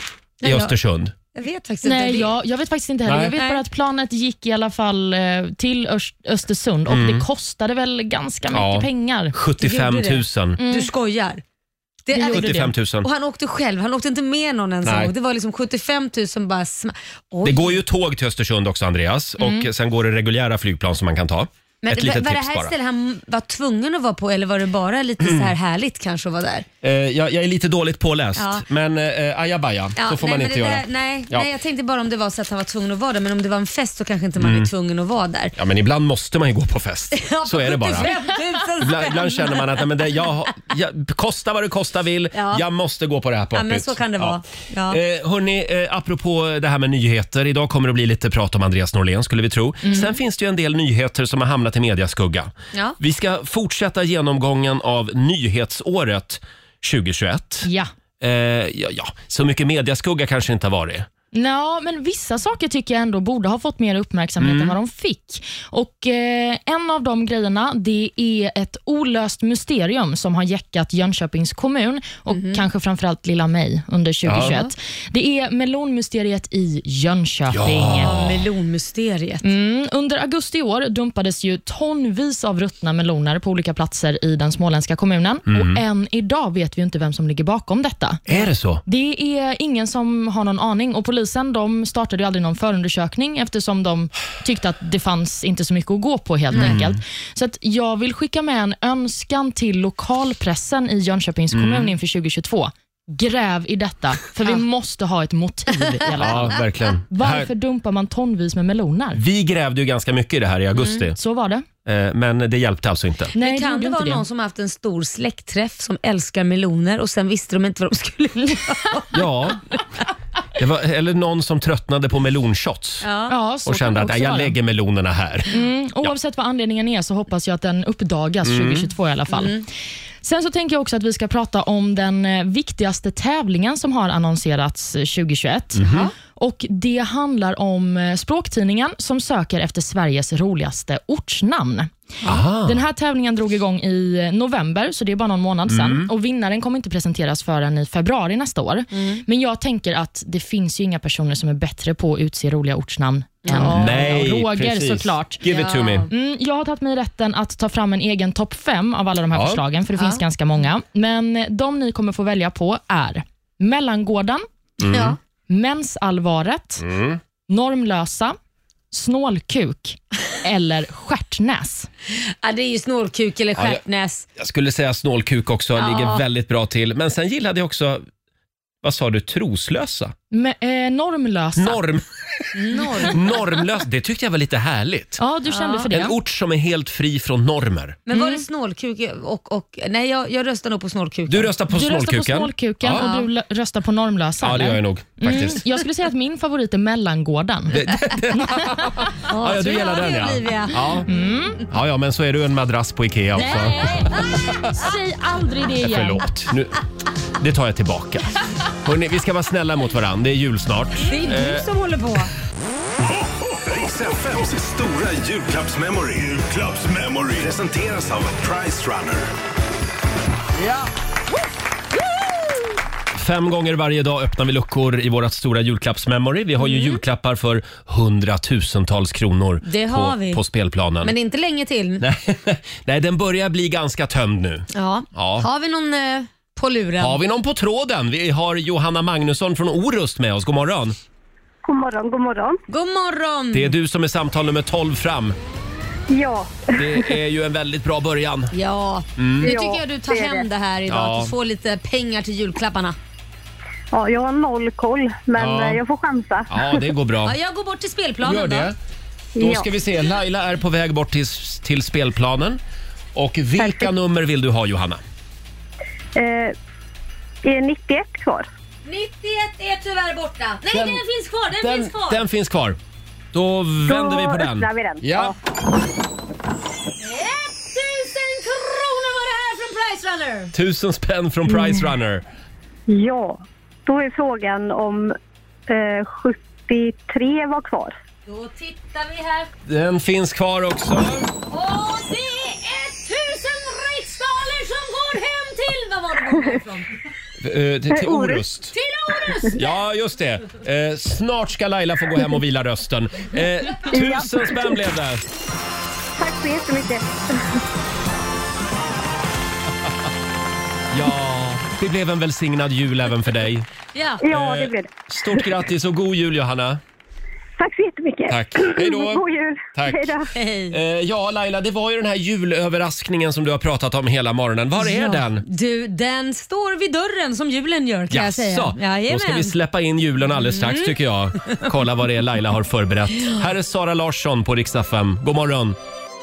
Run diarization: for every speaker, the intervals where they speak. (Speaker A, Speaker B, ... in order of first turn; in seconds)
Speaker A: 0.4-0.8, 1.3-2.4, 3.4-3.6, 9.6-11.4, 12.1-17.8, 21.8-26.7, 28.4-28.6, 30.0-35.6, 37.1-40.0, 42.3-42.6, 43.5-45.0, 72.3-72.6, 78.0-79.5, 113.3-119.2, 123.0-123.3, 129.3-129.7, 135.8-136.1, 148.9-149.2, 153.4-154.0, 155.4-156.1, 160.0-160.2, 164.9-165.2, 172.4-174.3, 175.8-176.2, 182.6-183.3, 185.5-185.9, 188.1-191.5, 193.0-193.3, 199.3-200.8, 211.0-212.3, 226.6-227.0, 229.7-230.4, 231.0-232.1, 234.7-237.2, 242.7-243.7, 248.5-253.0, 257.2-258.7, 268.9-272.2, 277.0-280.5, 288.3-289.5, 291.5-296.9, 298.7-299.7, 313.9-314.2, 320.4-320.8, 324.8-329.6, 330.4-330.9
Speaker B: 0.4-1.1, 3.1-3.4, 6.9-7.3, 8.5-10.6, 12.3-13.1, 14.8-15.1, 17.4-22.7, 25.2-25.5, 26.8-31.5, 34.4-34.7, 35.6-38.1, 38.8-57.7, 58.2-61.1, 64.4-64.8, 74.3-74.6, 77.5-78.5, 85.5-85.8, 88.3-88.8, 96.5-97.0, 101.5-101.9, 106.2-107.5, 109.1-111.2, 111.9-113.3, 119.1-119.6, 120.6-123.1, 123.7-125.5, 128.4-128.9, 135.8-136.1, 142.2-142.8, 145.7-146.1, 153.6-156.1, 159.3-159.6, 164.8-165.2, 166.8-167.2, 173.6-173.8, 174.4-178.1, 178.8-180.2, 181.6-185.2, 185.9-188.0, 191.3-193.1, 194.4-195.7, 197.7-201.1, 201.7-204.7, 205.8-206.8, 207.4-211.7, 223.2-231.1, 232.0-235.5, 237.0-241.0, 243.5-245.4, 246.8-248.5, 249.2-249.6, 250.9-251.3, 255.3-255.8, 256.5-257.4, 258.2-258.8, 259.4-262.6, 263.1-265.0, 270.7-271.0, 271.6-272.8, 273.3-275.3, 280.5-282.2, 289.7-291.3, 297.4-298.7, 299.6-305.2, 310.9-313.7, 314.2-316.8, 318.3-319.2, 319.8-320.2, 320.7-325.4, 328.1-335.8
Speaker C: 1.8-9.3, 10.6-10.9, 12.1-12.7, 19.4-19.7, 57.6-57.9, 61.3-78.1, 79.4-88.2, 88.8-109.2, 111.2-111.7, 113.3-114.2, 123.3-124.5, 125.5-129.6, 130.2-141.9, 142.6-155.4, 156.1-164.4, 165.5-166.9, 167.5-168.4, 168.9-171.9, 180.3-181.8, 185.2-186.2, 188.1-188.4, 191.7-198.9, 201.1-201.6, 203.4-206.2
Speaker D: 213.2-219.3
Speaker E: 241.6-242.6, 246.1-246.7, 249.4-250.5, 253.9-256.7, 259.4-259.7, 266.1-266.5, 267.4-268.5, 273.9-275.3, 282.9-285.2, 285.7-287.9, 297.9-298.4, 303.9-304.8, 306.2-307.6, 314.2-315.4, 317.6-320.3